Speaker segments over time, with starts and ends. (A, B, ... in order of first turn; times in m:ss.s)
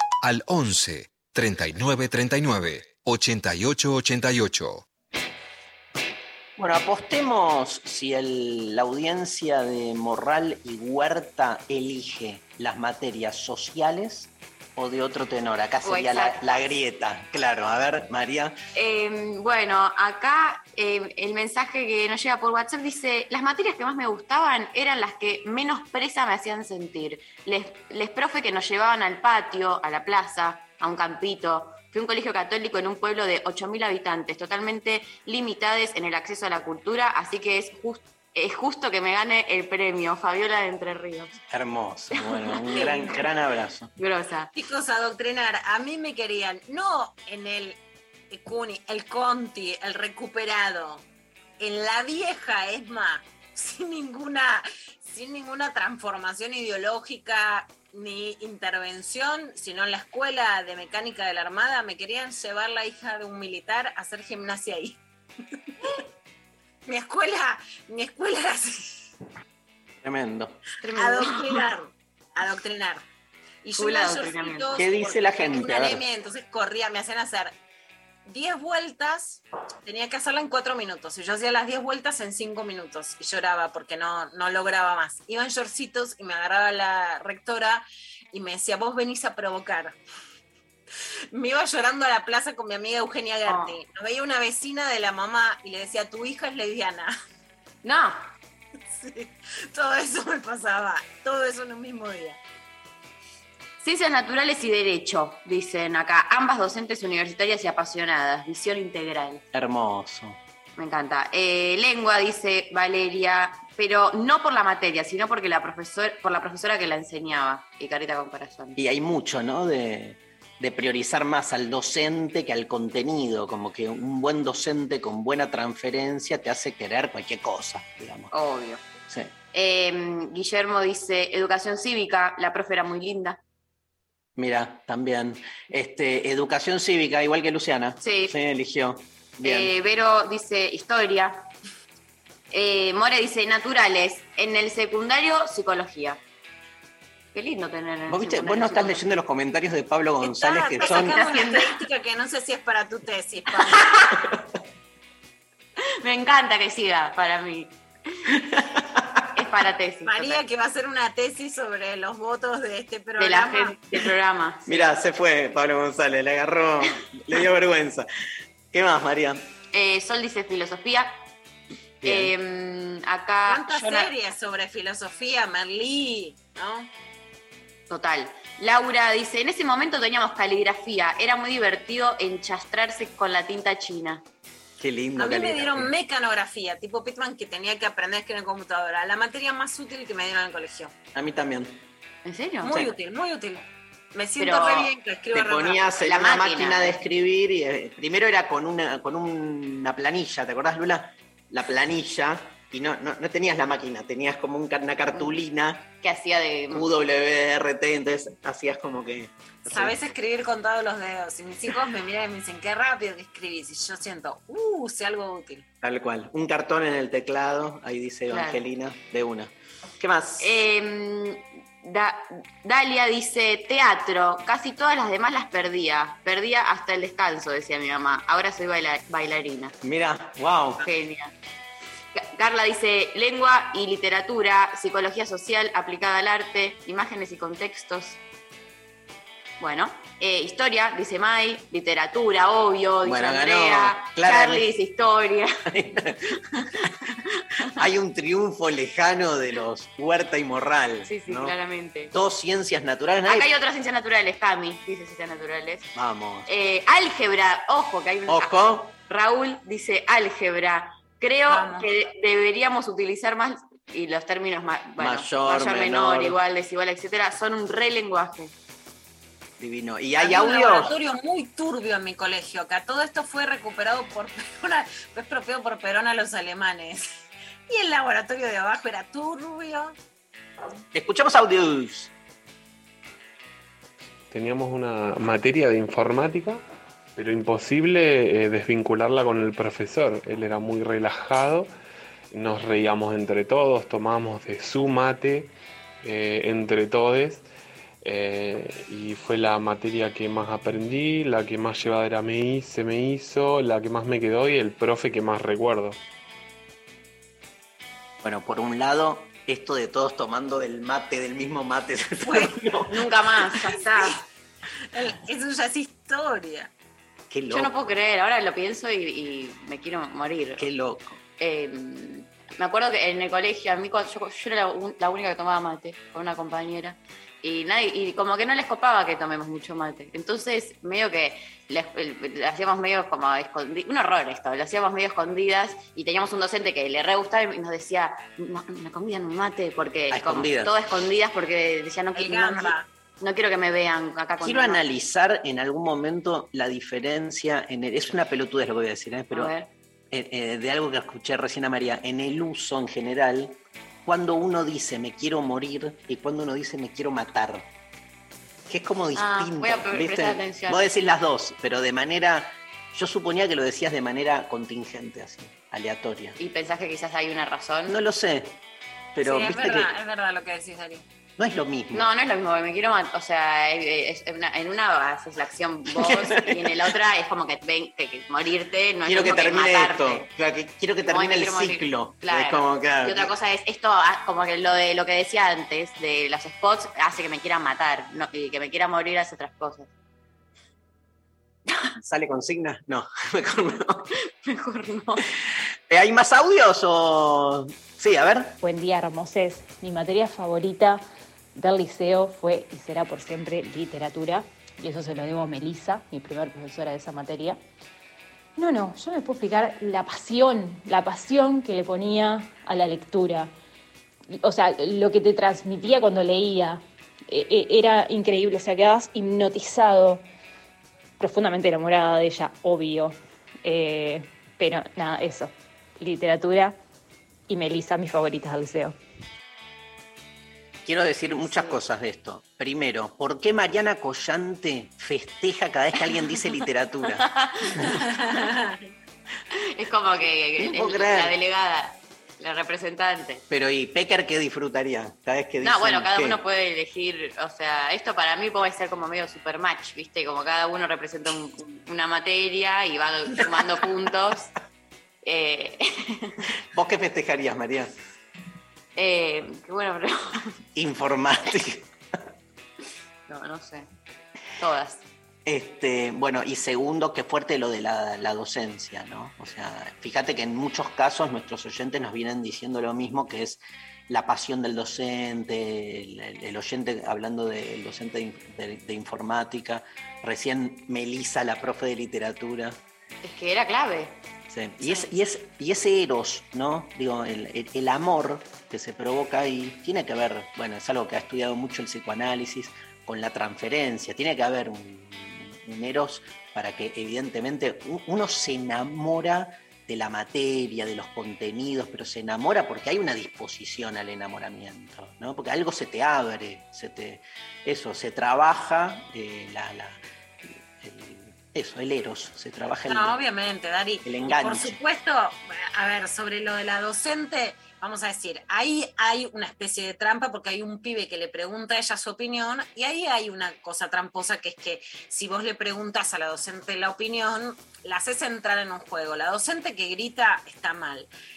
0:00.2-0:04.8 A
0:06.6-0:18.6 B
0:15.8-0:16.7 C
0:18.8-0:41.4 C
0:41.5-0:43.9 B
0:42.3-0:43.3 C
0:44.0-0:44.5 C
0:44.6-0:47.8 D
0:48.3-0:51.0 D
0:51.6-1:05.0 D
1:06.9-1:09.1 D
1:10.0-1:10.6 B
1:10.8-1:11.6 C
1:11.0-1:13.0 D
1:13.6-1:17.5 D
1:13.8-1:14.8 C
1:14.8-1:16.0 B
1:18.2-1:30.0 D
1:31.3-1:37.1 D
1:33.5-1:33.7 C
1:37.8-1:38.2 C
1:38.9-1:42.4 D
1:43.8-1:49.4 C
1:49.5-1:50.4 B
1:50.8-1:58.8 C
1:58.8-2:08.3 B
2:08.3-2:08.8 C
2:09.5-2:13.4 C
2:14.4-2:19.7 B
2:18.0-2:18.3 C
2:19.4-2:21.4 C
2:22.5-2:26.2 C
2:27.3-2:29.0 C
2:28.1-2:31.2 B
2:30.2-2:33.9 D
2:30.8-2:31.7 C
2:36.0-2:37.8 C
2:38.6-2:39.0 B
2:39.3-2:40.4 C
2:40.1-2:43.8 D
2:43.2-2:44.8 C
2:44.7-2:48.1 B
2:48.7-2:49.4 B
2:49.7-2:51.1 C
2:52.0-2:52.3 B
2:52.0-2:54.1 C
2:53.5-2:56.9 D
2:57.9-3:04.2 C
3:04.8-3:05.9 B
3:05.2-3:10.9 D
3:11.1-3:11.8 B
3:12.2-3:12.8 C
3:12.6-3:15.9 D
3:14.4-3:14.9 C
3:15.3-3:25.8 B
3:16.0-3:17.0 C
3:26.0-3:26.9 C
3:26.7-3:30.0 B
3:29.7-3:35.7 D
3:35.8-3:40.5 B
3:38.3-3:38.6 C
3:40.4-3:49.7 C
3:49.8-3:50.8 B
3:50.8-3:51.3 C
3:52.1-3:58.2 C
3:59.6-4:05.5 C
4:03.0-4:04.7 B
4:05.7-4:06.2 B
4:07.8-4:11.6 B
4:11.1-4:12.1 C
4:12.1-4:13.5 B
4:13.3-4:15.9 C
4:16.0-4:16.5 B
4:16.5-4:28.5 C
4:18.3-4:18.9 B
4:21.5-4:21.9 D
4:25.0-4:26.4 B
4:29.6-4:30.9 B
4:30.2-4:37.1 D
4:37.7-4:40.0 D
4:40.9-4:42.1 B
4:44.3-4:46.6 E
4:47.2-4:51.7 E
4:52.3-4:57.5 E
4:58.0-5:06.0 E
5:08.2-5:12.9 B
5:12.9-5:14.2 C
5:14.9-5:16.7 D
5:17.3-5:17.7 B
5:17.5-5:20.7 C
5:20.6-5:21.2 B
5:21.4-5:44.8 C
5:40.1-5:40.7 B
5:42.2-5:42.9 D
5:44.4-5:49.5 B
5:49.3-5:49.7 C
5:50.1-5:57.7 B
5:58.7-6:06.4 B
5:59.2-6:00.8 C
6:06.4-6:08.0 C
6:07.9-6:08.6 B
6:09.2-6:09.9 B
6:09.2-6:11.0 D
6:11.4-6:12.1 B
6:11.9-6:20.3 C
6:15.9-6:16.8 B
6:19.1-6:23.3 B
6:21.1-6:29.9 C
6:32.0-6:34.0 B
6:34.4-6:35.3 C
6:35.9-6:38.6 B
6:38.6-6:41.0 F
6:41.6-6:47.6 F
6:48.6-6:53.5 F
6:54.3-7:00.2 F
7:01.2-7:06.8 F
7:07.5-7:09.0 F
7:10.8-7:18.0 B
7:11.4-7:11.8 C
7:17.2-7:18.0 C
7:19.8-7:23.4 C
7:20.6-7:21.3 B
7:23.5-7:26.4 B
7:25.6-7:34.5 C
7:35.2-7:36.4 C
7:36.7-7:37.9 B
7:39.0-7:40.5 C
7:40.8-7:41.9 B
7:43.3-7:43.9 C
7:44.6-7:45.1 C
7:45.5-8:02.8 B
8:03.2-8:04.2 C
8:04.5-8:33.1 B
8:32.9-8:51.1 D
8:34.0-8:34.8 B